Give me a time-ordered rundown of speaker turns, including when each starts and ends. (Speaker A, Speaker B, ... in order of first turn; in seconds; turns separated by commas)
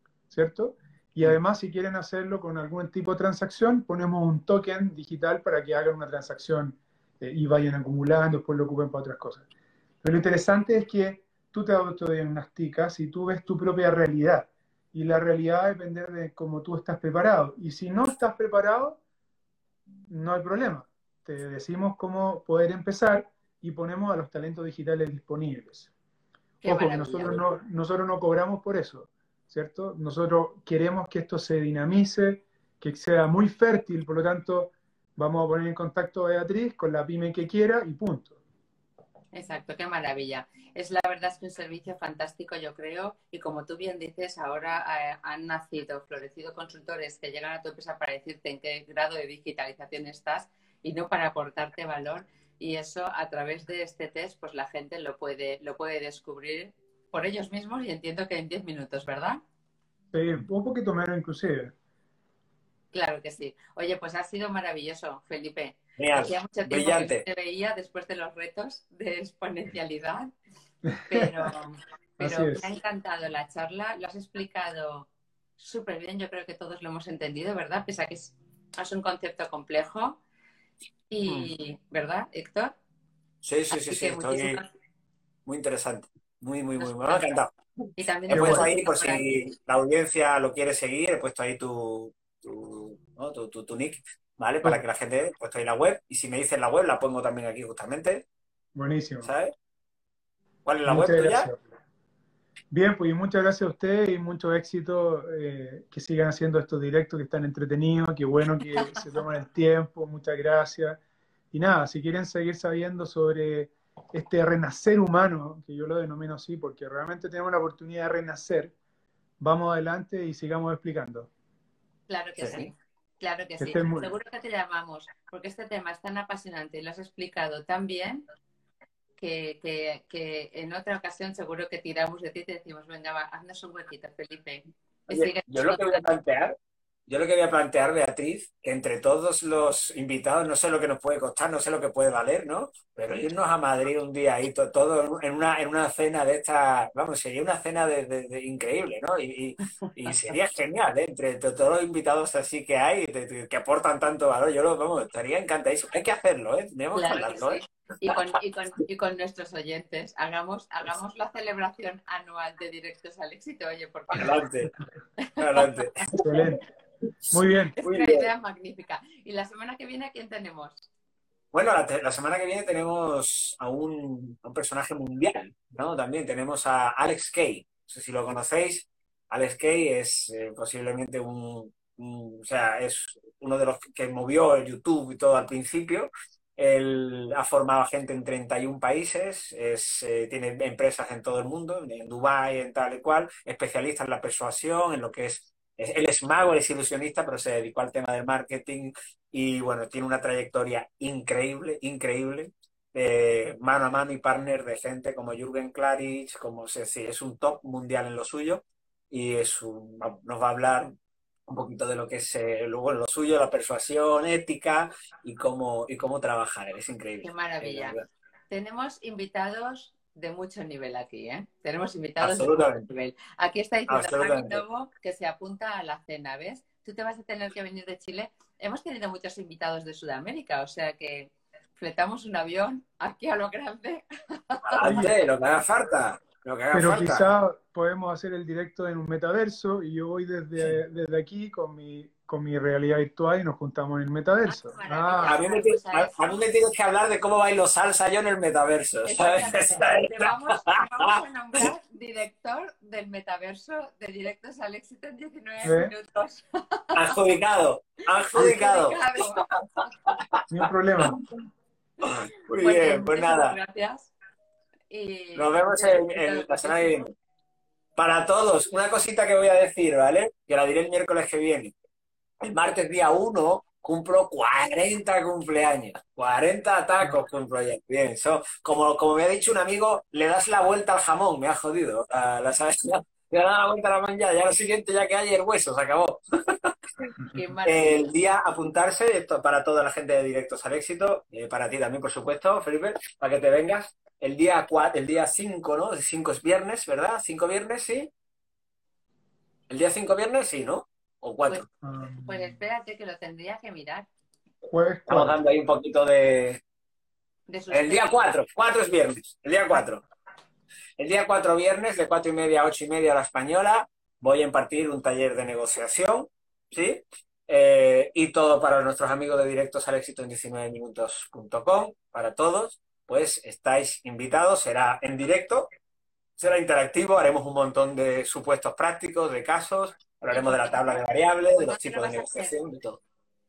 Speaker A: 0.3-9.4, Speaker A: 10.0-19.0, Speaker A: 20.1-25.9, Speaker B: 26.6-27.4, Speaker A: 26.6-38.4, Speaker B: 39.3-59.4, Speaker A: 60.1-61.7, Speaker B: 62.9-70.3, Speaker C: 66.0-67.2, Speaker A: 70.8-71.3, Speaker B: 71.1-80.2, Speaker A: 72.2-72.7, Speaker B: 81.1-82.7, Speaker C: 81.3-81.5, Speaker C: 83.4-84.6, Speaker B: 83.7-84.7, Speaker C: 85.5-87.5, Speaker B: 86.8-87.3, Speaker B: 88.0-89.2, Speaker C: 88.3-98.2, Speaker A: 88.3-88.7, Speaker A: 98.7-99.3, Speaker C: 99.2-99.5, Speaker C: 100.6-101.5, Speaker A: 100.8-101.6, Speaker A: 102.7-111.0, Speaker A: 111.5-118.7, Speaker A: 119.4-121.3, Speaker B: 122.1-128.2, Speaker C: 122.4-122.7, Speaker A: 123.6-124.1, Speaker B: 129.2-136.1, Speaker C: 135.1-136.6, Speaker C: 137.1-158.2, Speaker B: 156.9-164.4, Speaker C: 164.1-164.7, Speaker B: 165.2-165.7, Speaker C: 165.4-166.1, Speaker A: 166.2-166.6, Speaker A: 167.3-167.8, Speaker B: 167.8-170.9, Speaker C: 167.8-168.3, Speaker C: 171.5-210.9, Speaker C: 211.5-218.0, Speaker B: 217.2-218.0, Speaker B: 218.5-235.1, Speaker C: 222.2-222.9, Speaker C: 223.9-224.6, Speaker C: 234.7-237.3, Speaker A: 234.8-235.1, Speaker A: 236.7-245.4, Speaker B: 244.4-246.3, Speaker C: 245.2-251.0, Speaker B: 249.1-257.1, Speaker A: 255.6-255.9, Speaker C: 256.9-259.2, Speaker B: 258.3-259.4, Speaker C: 259.8-260.4, Speaker A: 260.5-261.2, Speaker C: 262.0-263.6, Speaker B: 262.0-264.1, Speaker B: 264.9-267.0, Speaker C: 265.4-267.1, Speaker C: 267.9-271.7, Speaker C: 272.4-298.1, Speaker B: 287.3-288.1, Speaker C: 299.7-301.6, Speaker A: 301.8-302.5, Speaker B: 302.2-304.1, Speaker A: 304.6-305.4, Speaker C: 305.1-306.6, Speaker B: 307.5-308.1, Speaker C: 307.7-310.0, Speaker C: 311.0-325.7, Speaker C: 326.4-333.0, Speaker B: 330.3-332.6